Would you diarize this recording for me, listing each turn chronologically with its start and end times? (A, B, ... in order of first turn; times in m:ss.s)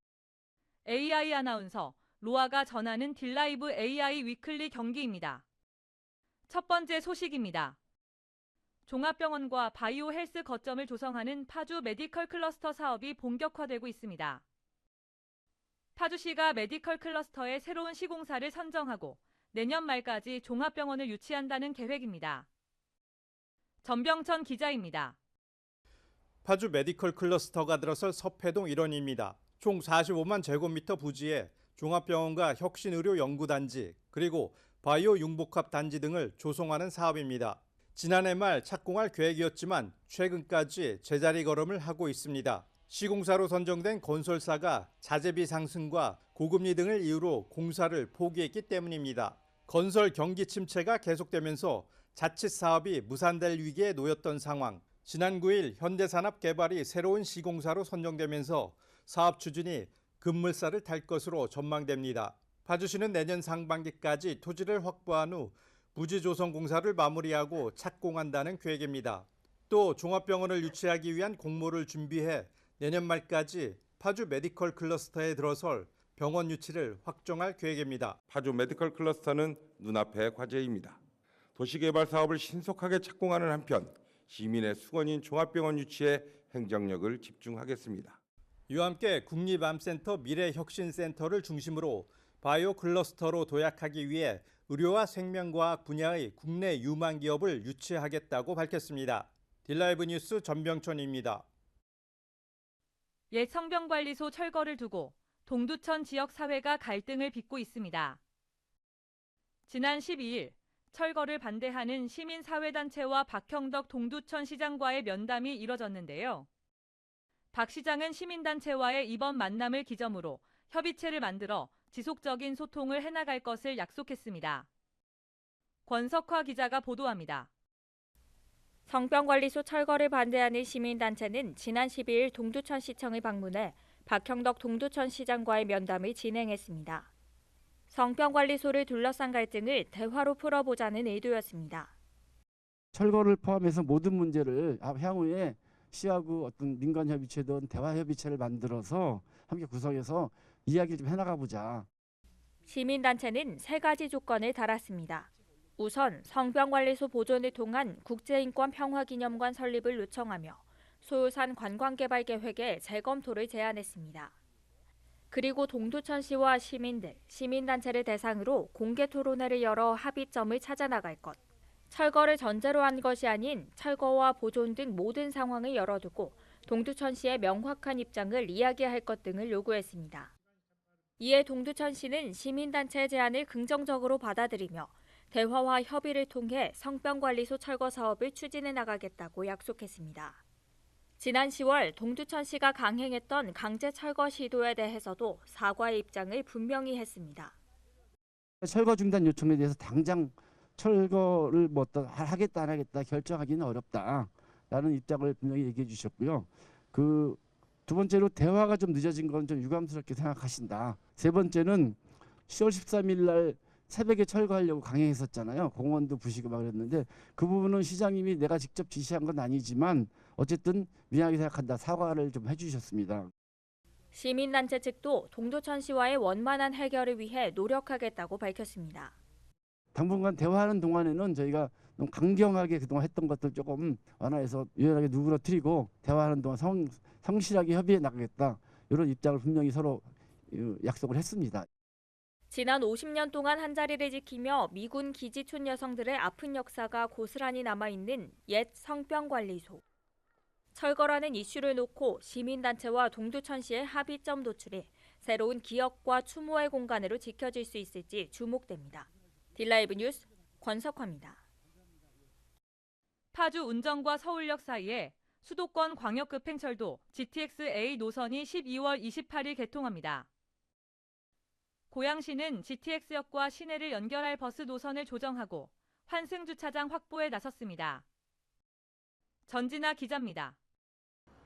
0:00.8-0:05.4 A
0:06.5-0:07.8 A
0:08.8-0:14.4 A
0:16.0-0:22.5 A
0:23.8-0:25.2 A
0:26.4-1:18.2 B
1:18.3-1:21.0 C
1:21.5-1:28.2 C
1:28.7-1:41.4 B
1:43.3-1:48.2 A
1:49.7-1:56.5 A
1:57.5-2:04.7 A
2:05.8-2:07.5 A
2:08.9-2:17.1 D
2:17.9-2:21.9 D
2:22.9-2:31.9 E
2:32.6-2:44.3 D
2:45.3-2:51.4 D
2:51.9-3:00.3 D
3:01.2-3:10.4 D
3:11.2-3:17.5 D
3:18.6-3:43.3 E
3:44.1-3:49.1 D
3:49.9-4:01.7 E
4:02.5-4:09.8 D
4:10.7-4:21.4 D
4:23.3-4:30.3 A
4:31.9-4:38.0 A
4:39.5-4:40.6 A